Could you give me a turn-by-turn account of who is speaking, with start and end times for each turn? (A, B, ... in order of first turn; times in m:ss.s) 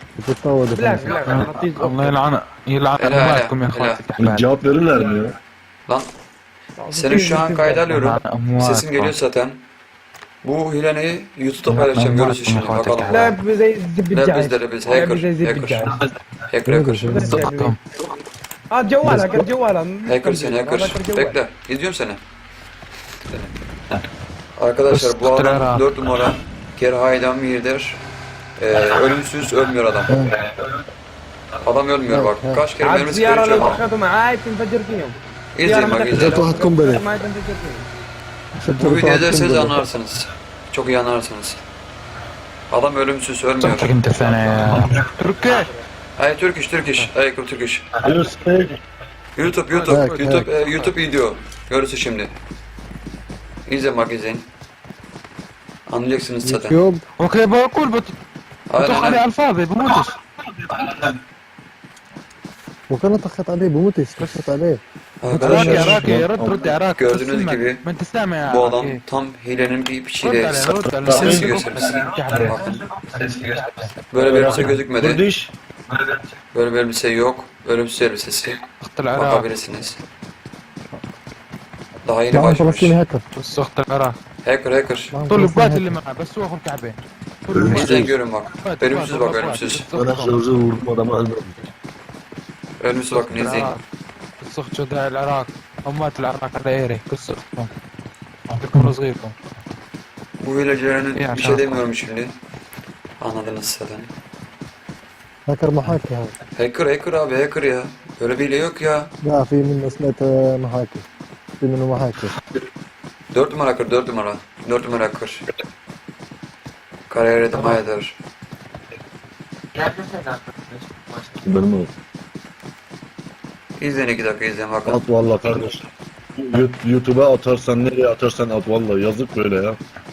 0:00.2-0:01.2 A
0:00.7-0:02.2 B
0:01.2-0:04.4 C
0:03.0-0:04.0 D
0:04.2-0:05.3 E
0:06.8-0:07.9 B
0:06.9-0:09.6 D
0:07.9-0:09.1 C
0:10.4-0:13.4 D
0:11.6-0:13.3 C
0:13.1-0:16.0 B
0:14.1-0:15.9 D
0:16.5-0:17.4 D
0:16.6-0:17.4 A
0:17.1-0:17.8 B
0:17.2-0:17.8 C
0:18.7-0:21.4 B
0:19.0-0:19.5 A
0:20.0-0:22.2 D
0:23.3-0:23.5 D
0:24.6-0:28.0 D
0:24.9-0:25.8 C
0:28.6-0:30.1 D
0:30.1-0:30.4 A
0:31.6-0:33.8 D
0:32.1-0:32.7 A
0:32.8-0:37.9 B
0:35.5-0:36.6 D
0:36.1-0:37.1 A
0:38.6-0:39.8 A
0:38.7-0:41.6 D
0:42.7-0:44.0 D
0:43.6-0:45.7 C
0:46.2-0:47.9 D
0:48.0-0:48.8 E
0:49.3-0:52.3 D
0:49.6-0:50.9 C
0:49.9-0:50.5 A
0:53.7-0:54.5 D
0:55.9-0:56.8 D
0:56.4-0:57.0 A
0:57.2-0:58.1 C
0:58.7-0:59.2 D
0:58.8-1:00.2 C
1:02.9-1:06.2 A
1:04.2-1:04.5 C
1:05.2-1:06.1 D
1:05.4-1:09.0 C
1:05.9-1:06.7 E
1:07.0-1:07.8 D
1:08.4-1:12.7 D
1:10.2-1:12.6 C
1:10.8-1:11.8 E
1:13.2-1:13.9 C
1:14.1-1:15.2 D
1:14.2-1:15.5 E
1:16.5-1:18.6 D
1:18.7-1:19.5 C
1:19.1-1:20.0 D
1:22.0-1:23.0 D
1:22.3-1:23.2 A
1:23.3-1:24.2 C
1:24.4-1:25.2 D
1:25.1-1:26.0 A
1:25.3-1:30.4 C
1:27.5-1:28.1 E
1:27.6-1:29.9 D
1:30.0-1:31.6 E
1:32.8-1:33.7 D
1:33.1-1:33.8 C
1:34.4-1:37.7 C
1:38.5-1:39.4 C
1:40.4-1:42.3 D
1:41.2-1:41.8 C
1:43.2-1:44.1 D
1:45.5-1:46.3 A
1:46.6-1:49.1 D
1:49.2-1:51.0 A
1:51.6-1:52.4 A
1:53.3-1:55.4 D
1:57.1-1:58.2 D
2:01.4-2:01.9 E
2:03.8-2:05.0 D
2:04.9-2:05.8 E
2:06.4-2:09.8 E